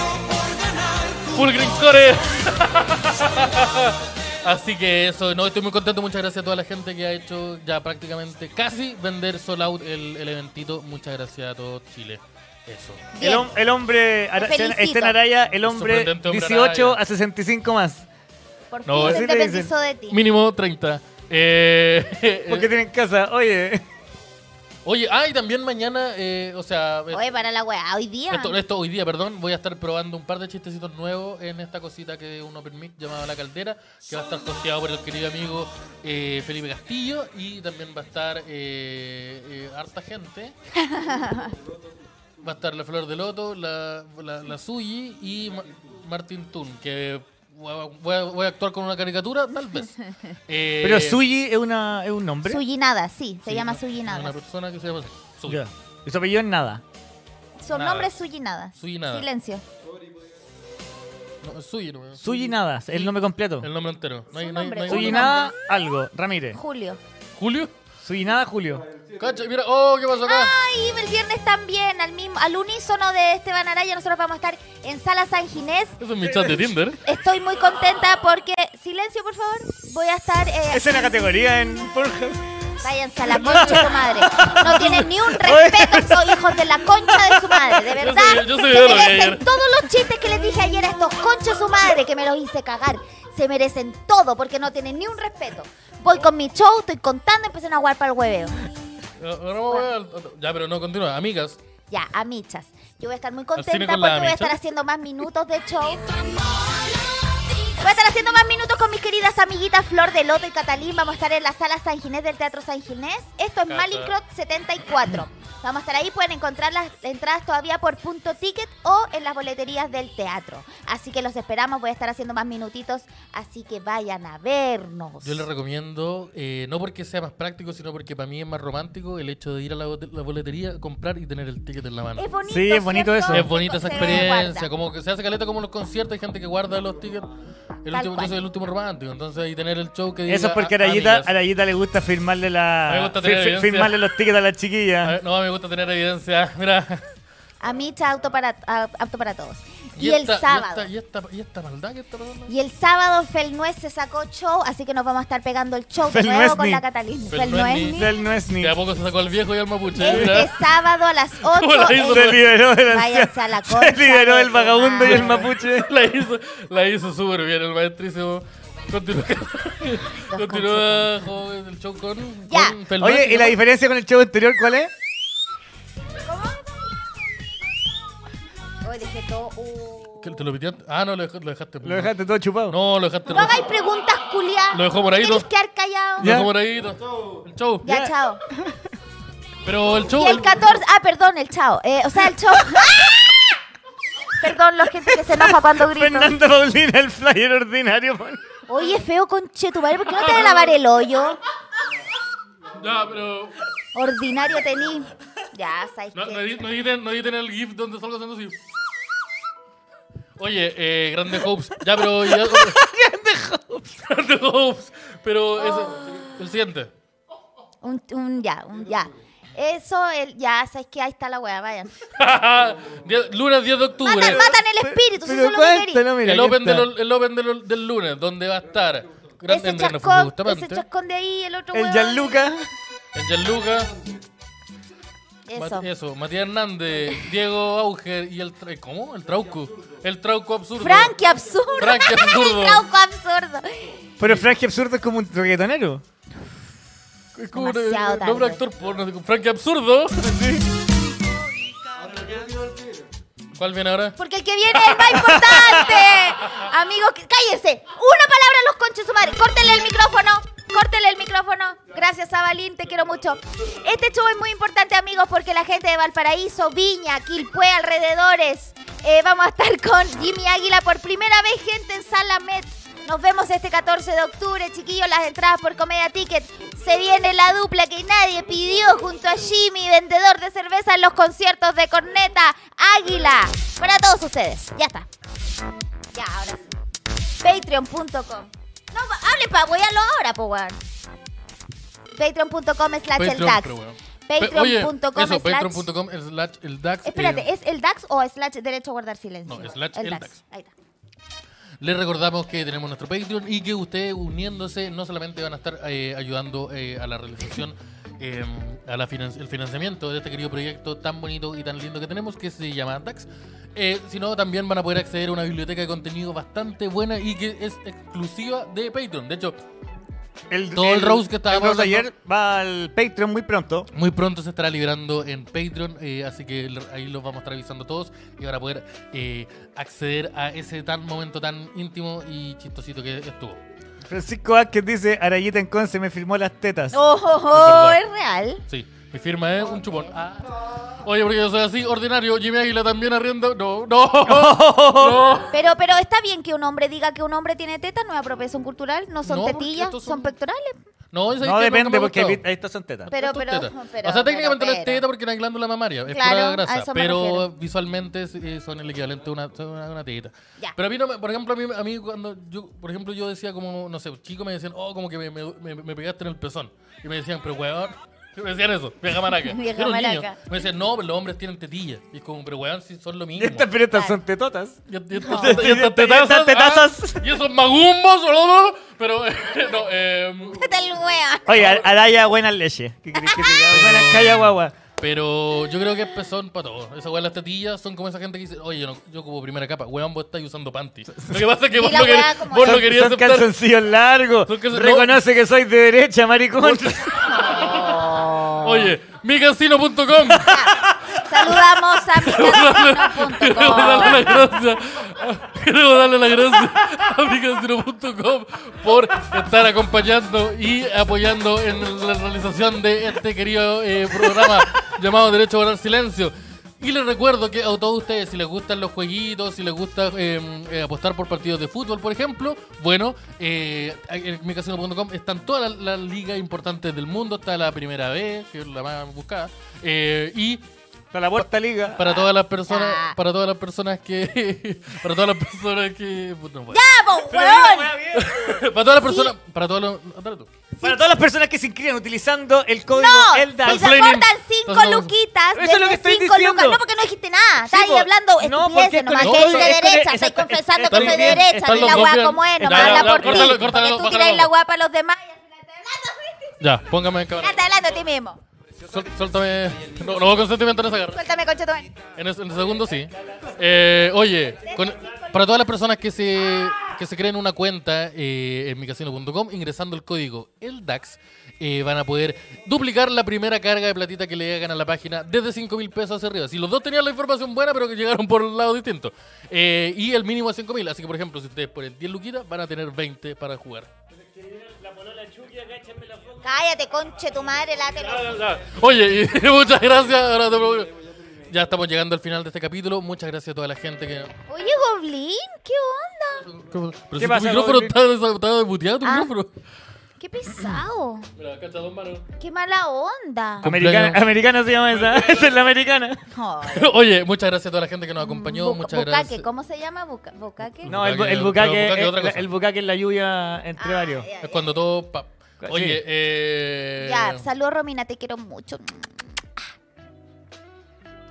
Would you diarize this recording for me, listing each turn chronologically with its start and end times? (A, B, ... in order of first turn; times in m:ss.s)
0:01.3-0:13.1 A
0:13.1-0:13.5 B
0:13.2-0:18.0 C
0:14.3-0:15.2 B
0:15.6-0:17.0 A
0:18.7-0:20.2 B
0:18.9-0:19.3 A
0:19.0-0:19.7 C
0:20.1-0:22.7 A
0:22.5-0:23.8 C
0:24.8-0:27.2 A
0:27.1-0:28.6 B
0:28.3-0:40.5 A
0:40.8-0:41.5 B
0:42.4-0:51.2 A
0:50.8-0:52.6 C
0:52.4-0:54.3 B
0:53.5-0:55.6 A
0:55.5-0:56.8 C
0:57.6-0:59.6 B
0:57.7-0:58.1 A
0:58.8-0:59.2 A
1:01.4-1:05.5 A
1:02.2-1:03.7 C
1:04.3-1:05.5 B
1:04.9-1:06.6 C
1:06.5-1:07.0 B
1:07.4-1:07.7 A
1:08.0-1:08.8 C
1:09.2-1:10.6 A
1:10.2-1:16.0 B
1:16.0-1:17.0 A
1:17.0-1:21.0 B
1:20.7-1:22.4 C
1:22.8-1:38.7 B
1:23.3-1:26.4 C
1:24.6-1:25.0 A
1:27.1-1:27.8 C
1:28.0-1:29.4 A
1:39.2-1:41.6 A
1:41.9-1:46.7 B
1:43.6-1:44.5 A
1:47.7-2:05.4 B
1:53.7-1:54.1 A
2:05.2-2:12.2 A
2:12.2-2:14.7 B
2:12.5-2:13.5 C
2:13.3-2:17.3 A
2:17.8-2:21.3 A
2:17.9-2:18.4 B
2:20.3-2:25.1 C
2:22.9-2:24.0 A
2:25.0-2:27.0 A
2:27.6-2:30.9 B
2:30.0-2:32.5 A
2:32.5-2:38.1 B
2:36.1-2:36.8 C
2:37.3-2:38.0 A
2:37.9-2:38.7 C
2:38.6-2:40.5 A
2:40.0-2:45.5 B
2:40.0-2:40.4 C
2:41.5-2:42.5 A
2:42.0-2:45.9 C
2:45.0-2:53.6 A
2:50.1-2:51.1 B
2:52.5-2:52.8 B
2:53.0-2:54.9 C
2:56.3-2:56.6 B
2:58.8-3:00.4 B
3:00.2-3:02.1 A
3:01.8-3:02.8 C
3:02.7-3:03.7 A
3:03.3-3:06.3 B
3:04.7-3:05.4 A
3:06.2-3:07.8 A
3:06.2-3:06.5 C
3:07.8-3:08.4 B
3:07.8-3:08.8 C
3:09.6-3:10.6 A
3:10.1-3:13.6 B
3:14.4-3:16.3 B
3:15.1-3:18.4 C
3:18.7-3:21.4 B
3:20.1-3:20.7 A
3:22.7-3:23.6 A
3:23.9-3:26.7 B
3:26.1-3:28.6 A
3:30.4-3:32.8 A
3:32.0-3:34.1 C
3:34.1-3:36.9 A
3:35.6-3:36.3 B
3:37.8-3:42.0 B
3:42.2-3:44.4 A
3:44.0-3:46.0 B
3:44.1-3:46.9 C
3:46.2-3:50.8 A
3:49.5-3:52.4 B
3:51.7-3:52.6 C
3:53.1-3:53.9 A
3:55.5-3:55.9 B
3:55.6-4:01.1 A
4:00.8-4:04.0 B
4:01.8-4:02.8 A
4:04.2-4:06.0 C
4:07.4-4:10.4 A
4:07.5-4:08.6 B
4:10.2-4:10.6 C
4:13.5-4:14.2 A
4:14.2-4:45.1 B
4:14.7-4:16.2 A
4:15.2-4:15.9 C
4:46.1-4:46.7 B
4:47.4-4:50.8 B
4:52.2-4:53.7 B
4:53.2-4:57.4 A
4:54.3-4:55.9 B
4:57.0-5:00.7 B
4:59.5-5:00.3 A
5:01.8-5:19.6 A
5:20.5-5:23.9 C
5:20.7-5:22.1 A
5:23.9-5:33.6 A
5:34.1-5:37.0 C
5:36.9-5:38.6 B
5:37.5-5:38.0 A
5:38.7-5:45.5 A
5:44.3-5:45.2 C
5:45.5-5:50.8 B
5:49.2-5:50.3 A
5:51.1-5:52.4 A
5:51.4-5:53.1 C
5:53.1-6:13.7 A
5:53.1-5:55.0 B
5:56.1-5:57.4 B
6:09.4-6:10.4 B
6:13.4-6:17.2 C
6:14.9-6:20.6 A
6:15.1-6:15.7 B
6:20.5-6:21.8 B
6:21.5-6:24.7 C
6:23.1-6:23.8 B
6:23.7-6:33.5 A
6:31.7-6:32.8 B
6:32.6-6:37.2 C
6:34.5-6:35.2 A
6:36.6-6:41.6 A
6:37.3-6:38.9 B
6:40.4-6:44.4 B
6:42.2-7:10.6 A
7:11.1-7:12.0 C
7:12.0-7:16.8 A
7:12.2-7:13.2 B
7:16.7-7:17.9 B
7:17.3-7:18.6 C
7:18.1-7:20.5 A
7:19.0-7:19.3 B
7:20.8-7:23.9 C
7:22.9-7:36.5 B
7:23.6-7:25.1 A
7:25.5-7:26.8 C
7:27.7-7:32.1 C
7:29.2-7:29.8 A
7:30.9-7:34.5 A
7:32.7-7:33.6 C
7:36.6-7:37.6 A
7:37.4-7:38.4 B
7:38.8-7:41.2 A
7:41.1-7:41.9 B
7:42.2-8:03.9 A
7:44.6-7:45.5 B
8:04.8-8:06.2 C
8:06.4-8:08.4 B
8:08.0-8:10.9 A
8:11.5-8:14.3 A
8:14.5-8:16.5 B
8:16.5-8:19.5 A
8:17.2-8:17.9 C
8:19.0-8:19.3 B
8:20.2-8:21.3 B
8:21.4-8:22.2 A
8:22.4-8:23.7 B
8:23.6-8:25.7 A
8:23.6-8:26.2 C
8:26.3-8:27.0 B
8:26.7-8:29.4 A
8:28.2-8:31.0 B
8:30.8-8:32.5 A
8:30.9-8:34.3 C
8:33.8-8:34.7 B
8:34.4-8:37.4 A
8:35.6-8:36.0 C
8:37.0-8:39.6 B